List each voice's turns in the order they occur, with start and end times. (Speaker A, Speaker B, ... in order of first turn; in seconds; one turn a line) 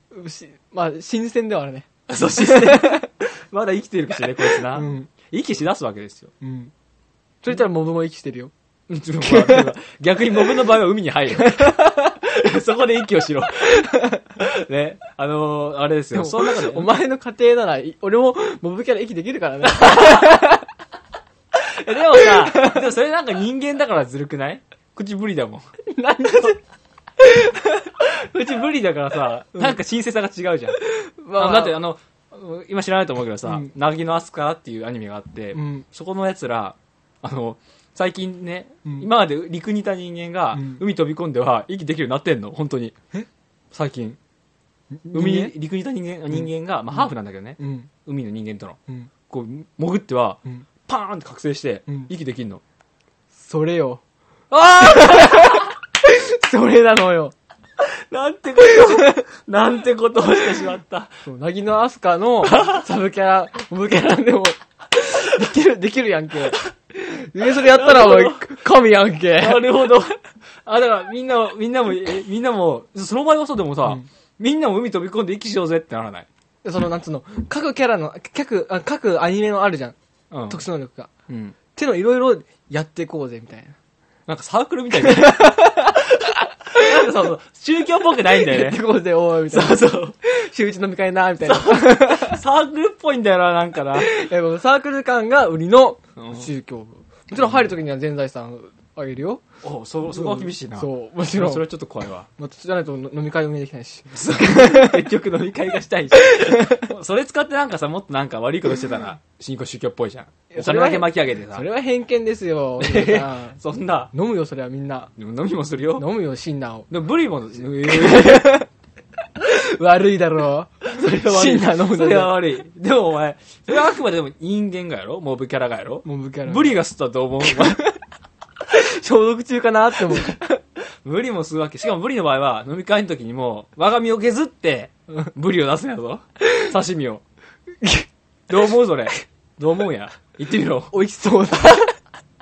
Speaker A: 0.1-3.1
Speaker B: 2.1-6.3
Speaker A: 4.4-5.1
Speaker A: 6.4-6.7
Speaker A: 7.4-8.5
Speaker B: 8.9-16.9
Speaker A: 9.2-9.7
Speaker A: 11.3-12.2
Speaker A: 13.7-14.2
Speaker A: 16.1-20.7
Speaker B: 19.6-20.5
Speaker B: 21.6-25.6
Speaker A: 22.2-22.9
Speaker A: 25.9-26.6
Speaker A: 27.2-28.0
Speaker B: 28.0-30.8
Speaker A: 30.8-31.8
Speaker B: 31.3-42.9
Speaker A: 35.5-35.9
Speaker A: 40.5-40.8
Speaker B: 43.7-44.2
Speaker A: 44.9-45.5
Speaker B: 45.1-48.8
Speaker A: 46.3-47.9
Speaker B: 49.3-52.6
Speaker A: 53.3-54.0
Speaker B: 54.5-55.7
Speaker A: 54.8-57.4
Speaker B: 57.8-61.1
Speaker A: 58.6-59.2
Speaker A: 61.2-69.7
Speaker B: 62.5-62.8
Speaker B: 67.4-68.6
Speaker B: 69.4-76.3
Speaker A: 76.6-80.0
Speaker B: 80.3-80.6
Speaker A: 80.5-81.1
Speaker B: 81.3-81.6
Speaker A: 81.7-83.8
Speaker B: 84.3-88.8
Speaker A: 84.9-87.1
Speaker A: 88.3-92.4
Speaker B: 89.5-90.2
Speaker B: 91.4-94.2
Speaker A: 94.0-99.4
Speaker B: 96.2-96.5
Speaker B: 97.3-97.7
Speaker B: 99.6-102.3
Speaker A: 100.1-101.7
Speaker A: 102.4-105.1
Speaker B: 104.1-111.7
Speaker A: 106.2-106.9
Speaker A: 110.5-113.6
Speaker B: 112.8-114.1
Speaker A: 114.1-115.1
Speaker B: 115.2-116.1
Speaker A: 116.0-116.9
Speaker B: 116.9-118.7
Speaker A: 117.8-118.7
Speaker A: 119.4-122.4
Speaker B: 120.8-127.9
Speaker A: 126.0-126.8
Speaker A: 127.4-128.0
Speaker A: 128.6-130.5
Speaker B: 131.0-137.2
Speaker A: 137.8-138.1
Speaker B: 138.5-140.9
Speaker A: 140.9-142.0